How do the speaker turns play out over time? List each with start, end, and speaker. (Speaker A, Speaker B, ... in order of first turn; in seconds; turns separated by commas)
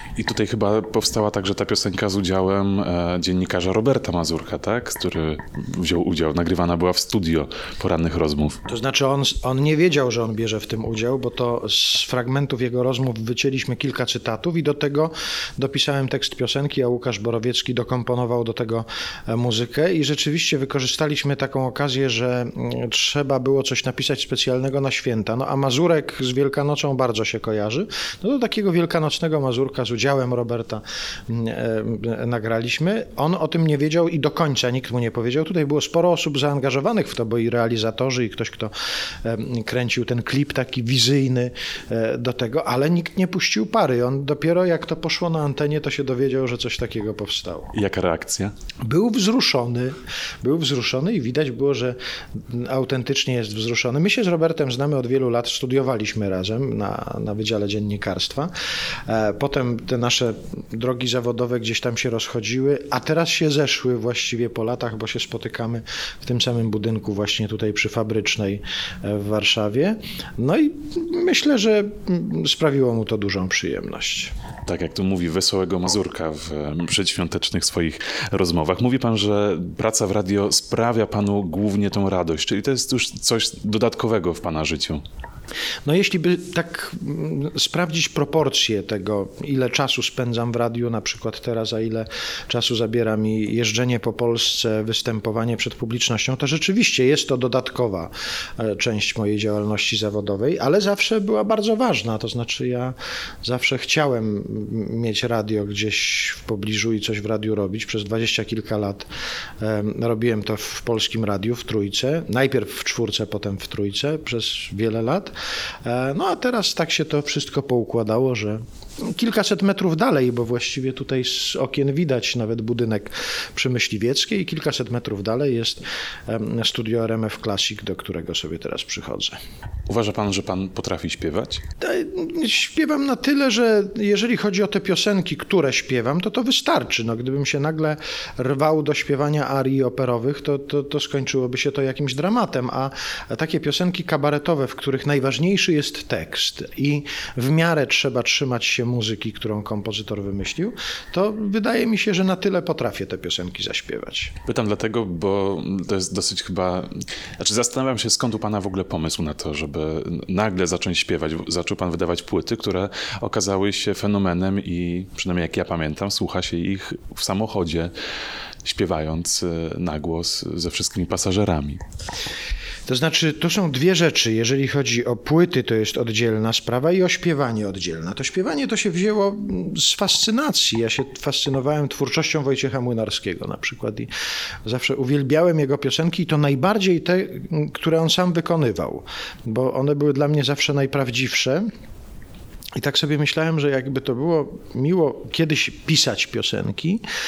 Speaker A: 0.2-8.6, Speaker B: 8.7-38.7, Speaker B: 39.2-47.7, Speaker A: 47.7-48.5, Speaker B: 48.8-58.5, Speaker B: 59.1-74.3, Speaker A: 74.7-85.0, Speaker B: 85.8-109.1, Speaker B: 109.6-129.4, Speaker A: 129.9-131.6, Speaker B: 131.8-154.3, Speaker A: 154.5-167.9, Speaker A: 168.6-171.8, Speaker B: 172.9-184.1, Speaker B: 184.7-191.7, Speaker B: 192.8-197.0